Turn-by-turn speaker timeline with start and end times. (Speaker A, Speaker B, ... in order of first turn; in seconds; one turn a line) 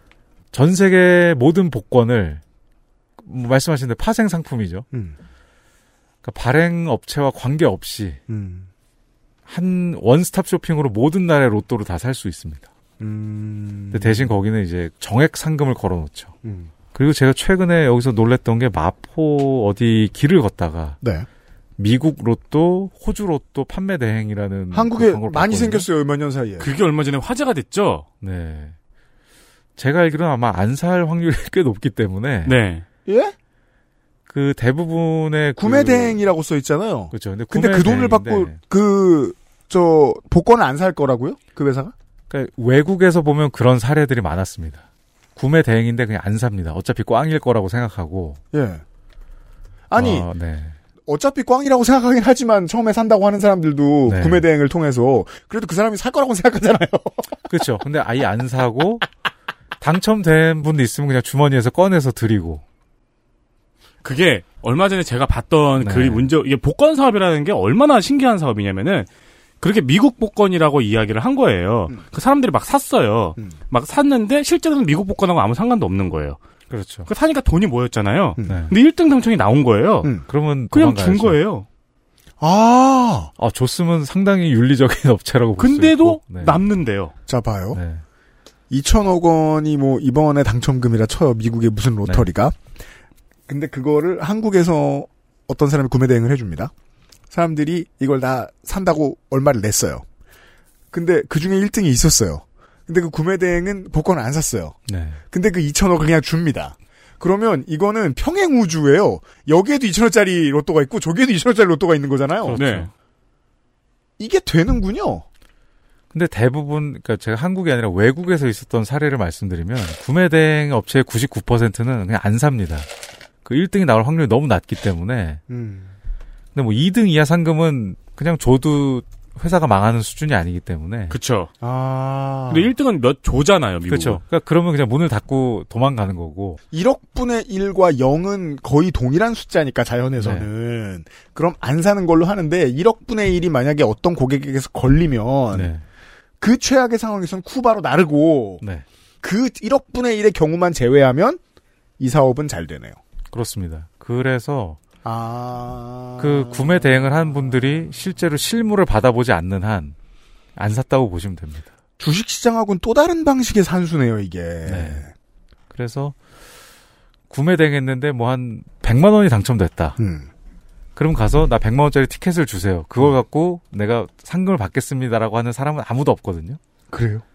Speaker A: 0.5-2.4
Speaker A: 3.2-4.9
Speaker B: 4.9-5.2
Speaker A: 6.2-8.2
Speaker B: 8.3-8.7
Speaker A: 9.5-12.7
Speaker B: 13.0-14.3
Speaker A: 13.9-16.3
Speaker B: 16.4-16.7
Speaker A: 16.9-21.0
Speaker B: 21.0-21.3
Speaker A: 21.8-25.9
Speaker B: 24.7-26.7
Speaker C: 26.6-28.1
Speaker A: 28.2-28.8
Speaker A: 29.8-32.6
Speaker C: 32.5-32.9
Speaker B: 33.0-33.3
Speaker A: 34.3-36.2
Speaker B: 35.6-41.9
Speaker A: 37.1-38.6
Speaker A: 42.3-44.9
Speaker A: 45.4-48.4
Speaker B: 48.5-48.8
Speaker B: 49.9-50.3
Speaker A: 50.0-50.8
Speaker B: 51.1-57.4
Speaker A: 54.1-54.5
Speaker A: 57.5-59.1
Speaker A: 59.8-62.6
Speaker C: 64.0-69.1
Speaker A: 65.8-66.3
Speaker C: 69.6-76.4
Speaker A: 76.7-77.1
Speaker C: 77.1-80.1
Speaker B: 78.4-78.6
Speaker A: 78.5-78.8
Speaker A: 80.3-81.4
Speaker C: 80.7-81.7
Speaker B: 82.4-83.3
Speaker A: 83.4-86.6
Speaker C: 85.6-87.1
Speaker B: 87.3-87.8
Speaker A: 87.7-88.0
Speaker B: 88.7-92.6
Speaker B: 93.5-96.7
Speaker B: 97.3-100.0
Speaker B: 100.9-104.8
Speaker A: 104.9-105.2
Speaker B: 105.3-112.6
Speaker A: 112.5-112.9
Speaker C: 112.5-112.9
Speaker B: 114.2-115.2
Speaker A: 116.1-122.9
Speaker A: 123.5-125.4
Speaker B: 125.5-126.0
Speaker A: 126.5-131.2
Speaker C: 131.1-131.5
Speaker B: 131.6-132.7
Speaker C: 132.5-134.2
Speaker A: 133.8-136.6
Speaker B: 136.7-145.7
Speaker A: 140.2-140.5
Speaker A: 145.5-145.8
Speaker B: 146.4-148.6
Speaker A: 148.6-148.9
Speaker B: 149.2-151.4
Speaker B: 152.0-153.0
Speaker A: 153.3-154.8
Speaker B: 155.0-158.1
Speaker A: 156.2-159.9
Speaker A: 160.6-161.7
Speaker B: 162.0-165.1
Speaker A: 164.7-165.1
Speaker A: 165.7-166.2
Speaker A: 167.3-170.0
Speaker B: 170.0-170.3
Speaker A: 171.0-176.6
Speaker B: 176.9-177.2